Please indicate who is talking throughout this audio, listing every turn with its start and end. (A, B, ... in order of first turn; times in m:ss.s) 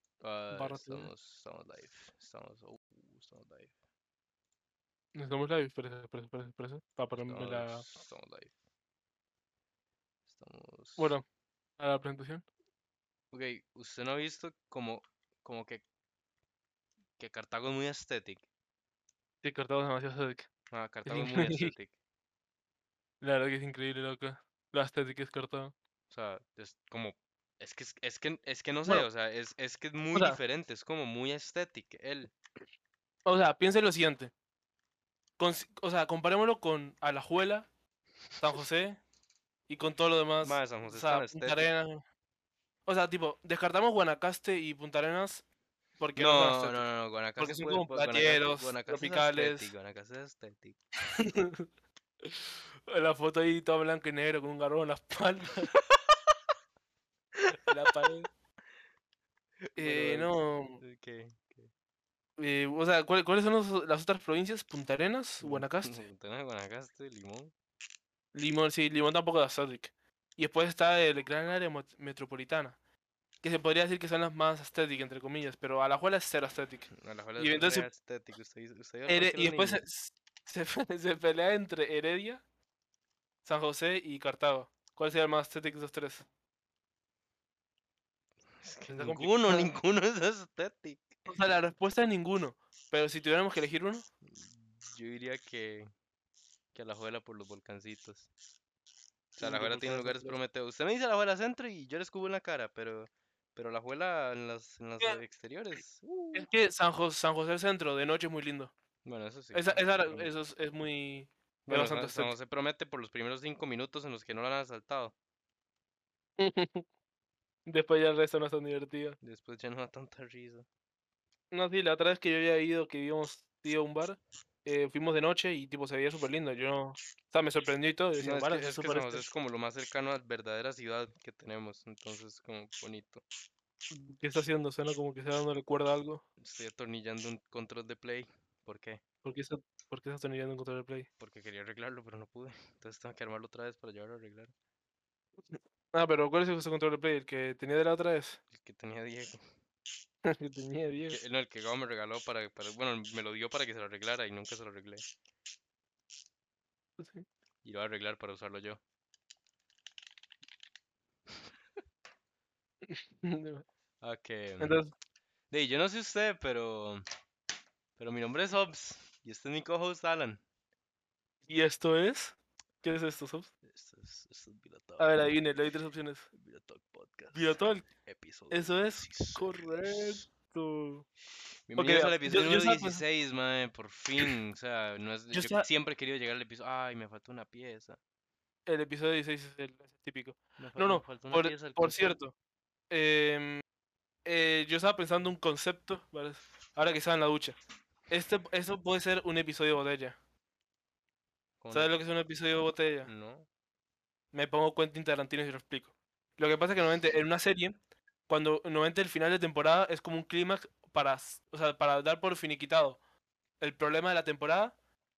0:00.2-0:03.7 A
0:00.5-0:01.1 B
0:05.2-0:07.9 B
0:07.3-0:08.5 A
0:10.3-0:11.2 A
0:11.0-0:11.2 B
0:11.8-0:12.4 B
0:13.3-0:15.8 A
0:17.2-0:18.4 A
0:19.4-0:20.5 B
0:20.7-0:21.9 A
0:21.0-0:21.7 B
0:23.2-0:25.7 B
0:26.1-0:32.3 A
0:30.1-0:30.4 B
0:33.3-0:34.3 B
0:35.4-0:37.7 B
0:38.4-0:39.0 B
0:39.7-0:42.0 B
0:40.4-0:41.7 A
0:42.9-0:45.4 B
0:46.0-0:46.9 B
0:46.2-0:50.8 A
0:47.4-0:49.7 B
0:51.1-0:51.6 B
0:52.2-0:55.7 B
0:57.5-0:58.3 B
0:59.7-1:01.7 A
0:59.8-1:00.8 B
1:02.4-1:06.0 B
1:05.4-1:07.5 A
1:08.3-1:12.8 B
1:13.4-1:17.9 B
1:16.9-1:19.8 A
1:19.1-1:22.4 B
1:23.4-1:26.3 B
1:28.6-1:31.2 A
1:28.9-1:29.7 B
1:31.3-1:34.1 B
1:34.2-1:35.9 A
1:36.7-1:38.3 A
1:39.4-1:46.5 A
1:39.4-1:40.4 B
1:46.3-1:48.7 B
1:49.0-1:50.3 A
1:49.5-1:52.3 B
1:51.7-1:55.2 A
1:56.4-1:56.8 B
1:57.7-1:59.2 B
1:59.2-2:00.7 A
2:01.5-2:09.3 B
2:08.2-2:13.2 A
2:13.9-2:16.2 B
2:16.4-2:19.0 A
2:19.2-2:21.1 B
2:21.2-2:24.5 A
2:25.5-2:28.4 B
2:28.5-2:29.4 A
2:30.2-2:31.2 B
2:31.1-2:35.0 A
2:37.0-2:37.3 B
2:37.6-2:38.8 A
2:42.9-2:43.7 B
2:44.0-2:44.8 A
2:44.6-2:44.9 B
2:45.5-2:47.0 A
2:48.0-2:50.4 A
2:51.5-2:53.5 B
2:53.6-2:55.4 A
2:55.0-2:56.3 B
2:56.3-2:57.5 A
2:57.3-2:57.9 B
2:58.0-3:00.3 A
2:58.5-3:01.1 B
3:01.7-3:08.0 A
3:01.8-3:03.0 B
3:05.3-3:05.7 B
3:08.7-3:12.3 B
3:10.6-3:12.2 A
3:12.9-3:13.6 B
3:14.2-3:17.6 B
3:18.1-3:20.2 B
3:21.6-3:21.9 A
3:21.7-3:23.1 B
3:23.0-3:23.5 A
3:24.3-3:27.8 B
3:28.3-3:33.0 B
3:33.6-3:34.8 B